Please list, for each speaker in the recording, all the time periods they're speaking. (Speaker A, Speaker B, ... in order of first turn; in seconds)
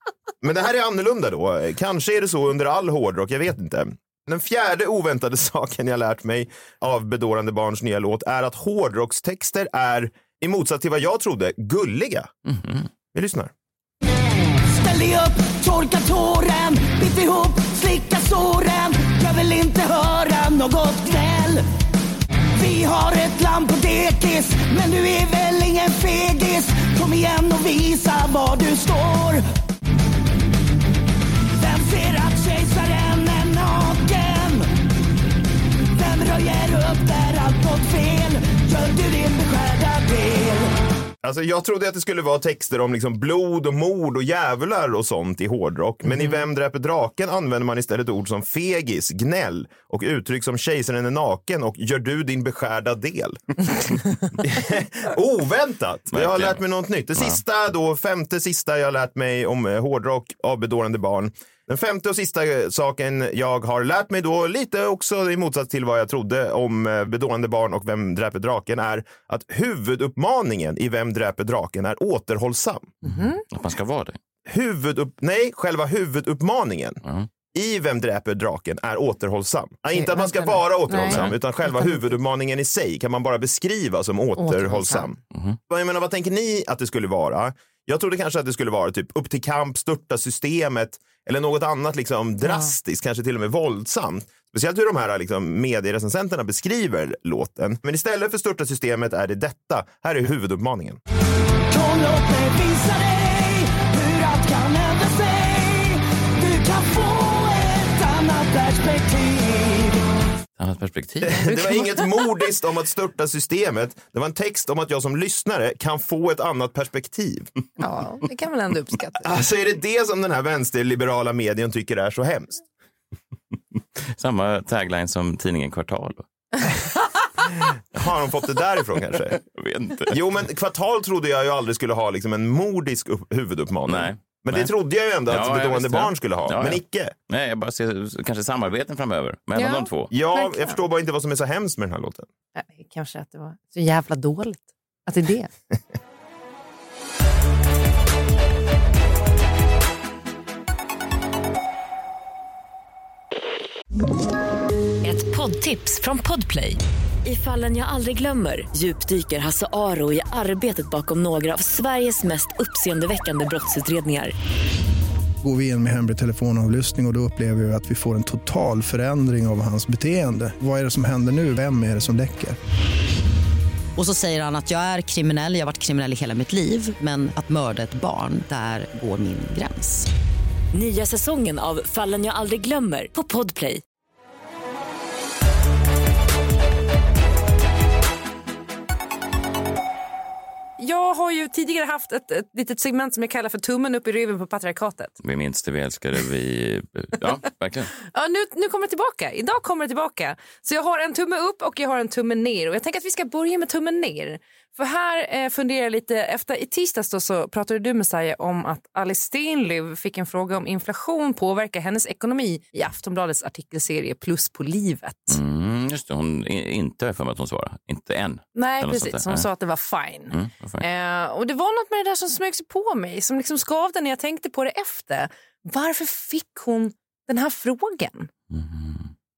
Speaker A: 0.4-12.3, 13.1-13.5, 41.2-53.4, 54.4-72.9, 74.5-77.0, 77.5-85.2, 85.7-101.0, 111.2-117.5, 119.2-122.6, 127.9-129.4, 130.1-137.1, 140.1-142.3
Speaker B: 12.4-12.9, 56.1-56.6, 57.1-57.4, 73.1-74.2, 81.0-81.3, 85.3-85.6, 110.6-111.4, 124.0-126.3, 129.3-130.2, 133.9-134.7, 135.3-140.1, 195.2-197.9, 215.3-219.5, 220.3-220.8, 228.5-229.1
Speaker C: 14.7-21.6, 22.6-29.4, 31.6-34.7, 35.9-40.7, 101.7-110.0
Speaker D: 73.0-73.4, 79.9-82.0, 84.4-85.1, 92.4-92.7, 111.5-112.2, 117.8-119.3, 139.6-140.8, 142.5-145.5, 190.8-195.1, 198.1-215.4, 218.5-228.3
Speaker E: 155.0-164.3, 180.7-183.8
Speaker F: 165.4-172.6
Speaker G: 173.9-180.1